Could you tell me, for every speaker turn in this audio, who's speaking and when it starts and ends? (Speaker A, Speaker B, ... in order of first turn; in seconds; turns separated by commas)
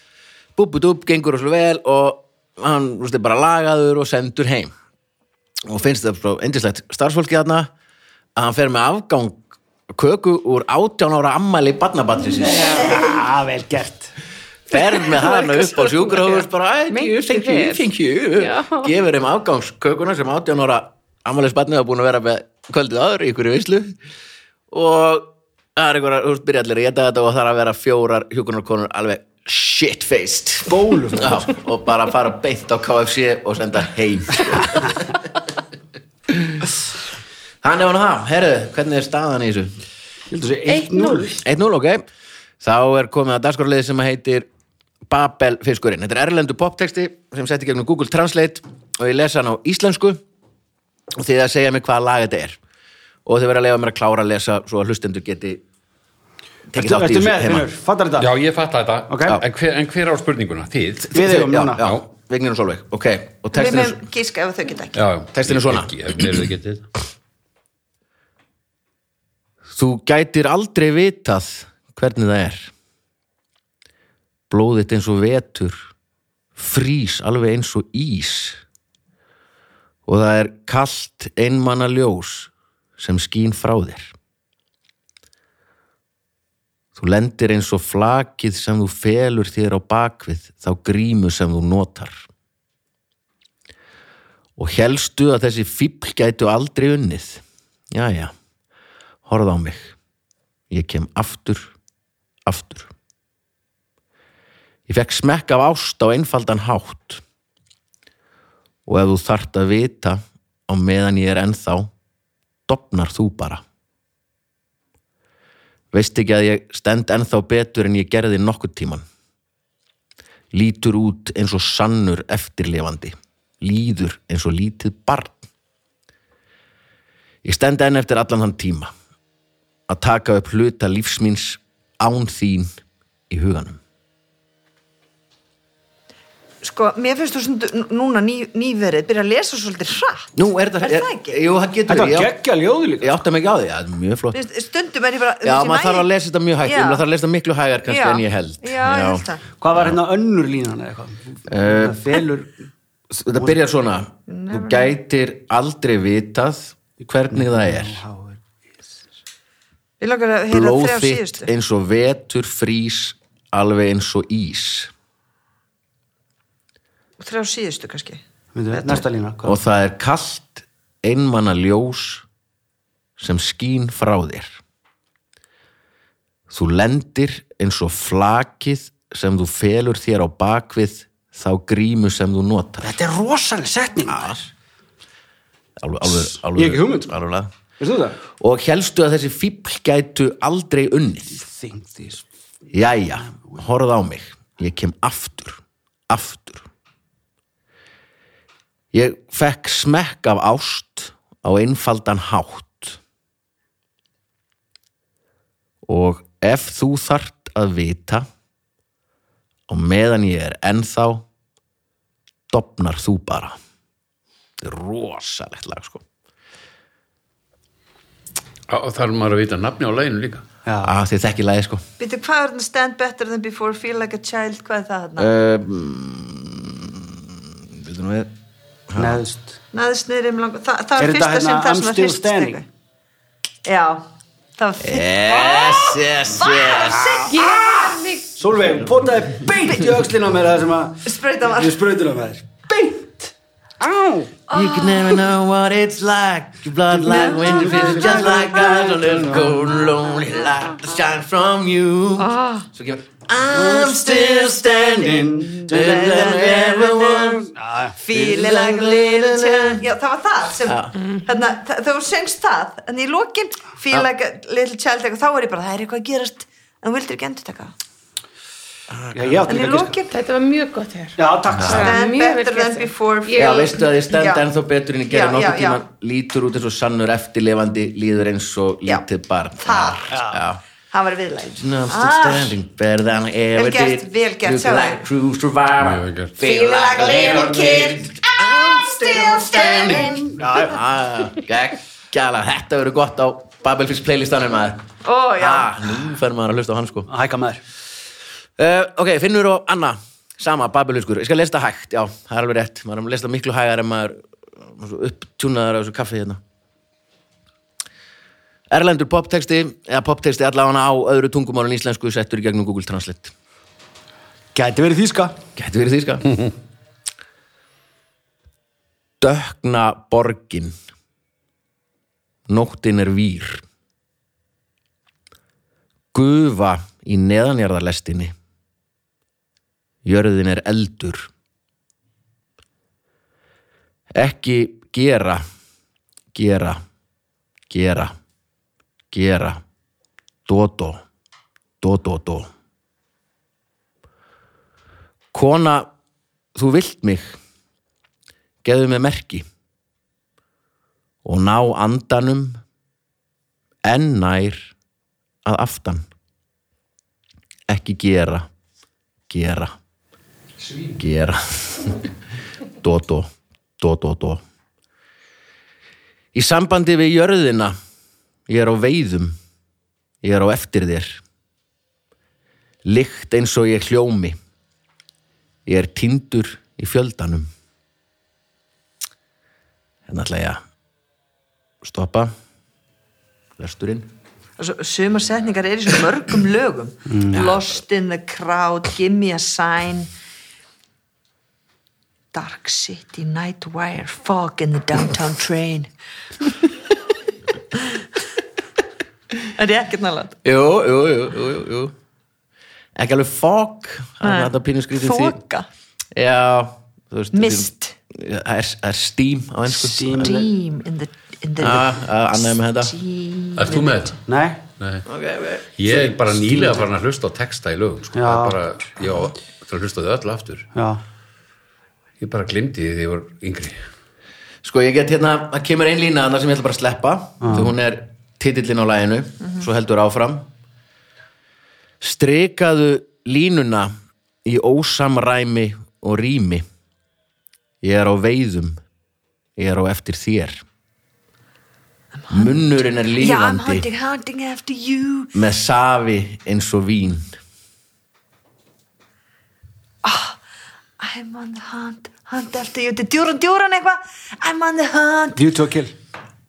Speaker A: 0.6-4.7, Speaker A: 5.7-7.7, Speaker A: 8.3-12.9, Speaker B: 12.5-14.1, Speaker A: 14.7-23.9, Speaker C: 15.1-18.9, Speaker A: 24.7-35.2, Speaker B: 30.6-31.5, Speaker A: 36.3-36.6, Speaker A: 37.6-39.7, Speaker B: 40.3-41.4, Speaker C: 40.7-41.4, Speaker A: 41.4-42.0, Speaker A: 42.6-44.5, Speaker A: 45.1-50.2, Speaker A: 51.2-52.6, Speaker A: 53.2-55.6, Speaker A: 56.7-57.7, Speaker B: 56.7-58.3, Speaker D: 58.2-61.2, Speaker B: 59.1-59.4, Speaker B: 61.1-61.9, Speaker A: 61.1-64.0, Speaker D: 61.8-62.0, Speaker E: 63.5-65.0, Speaker D: 64.9-66.8, Speaker A: 65.3-65.9, Speaker A: 69.7-72.7, Speaker A: 74.5-75.9, Speaker A: 76.5-78.6, Speaker A: 80.0-84.1, Speaker A: 87.0-92.2, Speaker A: 94.6-98.3, Speaker A: 99.2-99.9, Speaker A: 100.7-101.7, Speaker A: 102.5-102.9, Speaker A: 104.9-107.2, Speaker A: 108.8-111.9, Speaker A: 112.7-113.6, Speaker A: 115.9-119.0, Speaker A: 120.5-125.5, Speaker A: 127.4-128.9, Speaker A: 129.9-132.7, Speaker A: 133.3-133.8, Speaker E: 136.6-141.4, Speaker A: 140.3-142.3, Speaker B: 141.9-143.2, Speaker A: 143.0-144.4, Speaker E: 144.3-146.1, Speaker A: 145.4-149.2, Speaker E: 146.6-147.0, Speaker E: 147.9-149.4, Speaker B: 149.6-152.6, Speaker A: 151.5-152.2, Speaker A: 153.1-158.0, Speaker E: 154.3-154.9, Speaker B: 157.3-158.4, Speaker E: 160.0-161.5, Speaker A: 160.5-164.9, Speaker E: 167.2-169.0, Speaker B: 168.5-169.6, Speaker A: 169.4-172.2, Speaker A: 173.2-174.6, Speaker A: 176.5-182.9, Speaker B: 182.8-184.5, Speaker A: 184.1-184.4, Speaker A: 185.8-187.5, Speaker B: 186.0-187.2, Speaker B: 187.8-188.2, Speaker A: 188.4-191.4, Speaker B: 191.3-192.3, Speaker A: 192.7-196.7, Speaker A: 198.9-203.0, Speaker A: 205.8-208.3, Speaker A: 209.7-211.2, Speaker A: 212.5-213.5, Speaker A: 214.6-216.0, Speaker D: 218.7-220.4, Speaker B: 220.6-220.9, Speaker A: 220.8-221.8, Speaker E: 222.0-225.3, Speaker A: 225.2-227.2, Speaker A: 227.7-228.3, Speaker A: 228.9-229.2, Speaker B: 228.9-229.6, Speaker E: 229.7-232.7, Speaker B: 231.0-232.6, Speaker E: 233.7-234.0, Speaker E: 234.6-238.2, Speaker A: 234.8-237.3, Speaker C: 237.2-238.3, Speaker B: 238.3-244.3, Speaker E: 241.0-241.8, Speaker E: 244.5-245.3, Speaker A: 244.5-257.5, Speaker E: 247.0-248.7, Speaker B: 247.2-249.6, Speaker E: 252.2-252.7, Speaker B: 253.5-256.4, Speaker E: 253.6-257.4, Speaker B: 257.4-258.0, Speaker E: 258.0-267.7, Speaker A: 258.1-259.8, Speaker A: 260.6-260.9, Speaker C: 261.0-261.2, Speaker A: 268.9-269.7, Speaker B: 269.1-270.0, Speaker E: 269.4-270.1, Speaker C: 270.1-273.7, Speaker B: 271.2-271.9, Speaker A: 271.5-271.9, Speaker E: 271.6-274.5, Speaker A: 273.4-280.6, Speaker E: 275.1-275.8, Speaker E: 279.6-280.2, Speaker B: 280.1-280.4, Speaker E: 280.9-282.6, Speaker A: 281.6-294.8, Speaker E: 283.5-285.0, Speaker D: 285.8-286.3, Speaker E: 286.4-290.6, Speaker B: 289.8-290.8, Speaker E: 295.0-295.7, Speaker A: 295.4-297.1, Speaker B: 297.1-297.6, Speaker A: 298.6-306.4, Speaker A: 308.7-313.3, Speaker B: 314.5-315.4, Speaker A: 315.6-316.5, Speaker A: 319.2-320.7, Speaker A: 322.5-323.6, Speaker A: 326.1-328.3, Speaker A: 330.0-331.3, Speaker A: 334.1-335.4, Speaker A: 336.3-336.8, Speaker A: 337.7-338.1, Speaker A: 339.1-339.6, Speaker A: 340.4-341.0, Speaker A: 341.8-342.5, Speaker A: 345.3-345.9, Speaker A: 346.5-347.4, Speaker A: 348.6-349.4, Speaker A: 351.2-352.6, Speaker A: 353.8-354.7, Speaker A: 355.4-356.0, Speaker A: 357.7-358.5, Speaker A: 359.3-359.7, Speaker A: 361.0-362.0, Speaker A: 362.8-364.4, Speaker A: 366.3-367.8, Speaker A: 368.5-369.3, Speaker A: 370.2-371.2, Speaker A: 372.8-374.4, Speaker A: 375.6-377.5, Speaker A: 380.1-380.6, Speaker A: 381.8-382.3, Speaker A: 383.6-384.1, Speaker E: 384.6-390.1, Speaker B: 387.1-387.4, Speaker E: 392.3-395.9, Speaker E: 397.7-398.0, Speaker E: 399.6-400.4, Speaker A: 400.4-401.9, Speaker A: 402.9-405.4, Speaker E: 404.2-405.7, Speaker A: 406.1-410.3, Speaker E: 407.3-407.9, Speaker B: 409.8-410.5, Speaker E: 410.2-413.9, Speaker A: 411.6-412.9, Speaker D: 413.5-414.2, Speaker B: 414.3-414.6, Speaker D: 414.8-415.1, Speaker A: 415.1-416.8, Speaker D: 415.8-420.7, Speaker B: 418.1-418.6, Speaker B: 420.7-421.0, Speaker D: 422.2-423.8, Speaker A: 424.6-430.5, Speaker B: 427.4-427.8, Speaker A: 432.0-433.9, Speaker A: 434.4-436.6, Speaker A: 437.8-438.8, Speaker A: 439.6-440.6, Speaker E: 442.2-442.6, Speaker A: 442.3-443.9, Speaker E: 443.1-445.3, Speaker A: 445.3-447.3, Speaker E: 450.0-450.4, Speaker E: 451.0-455.4, Speaker B: 455.3-455.9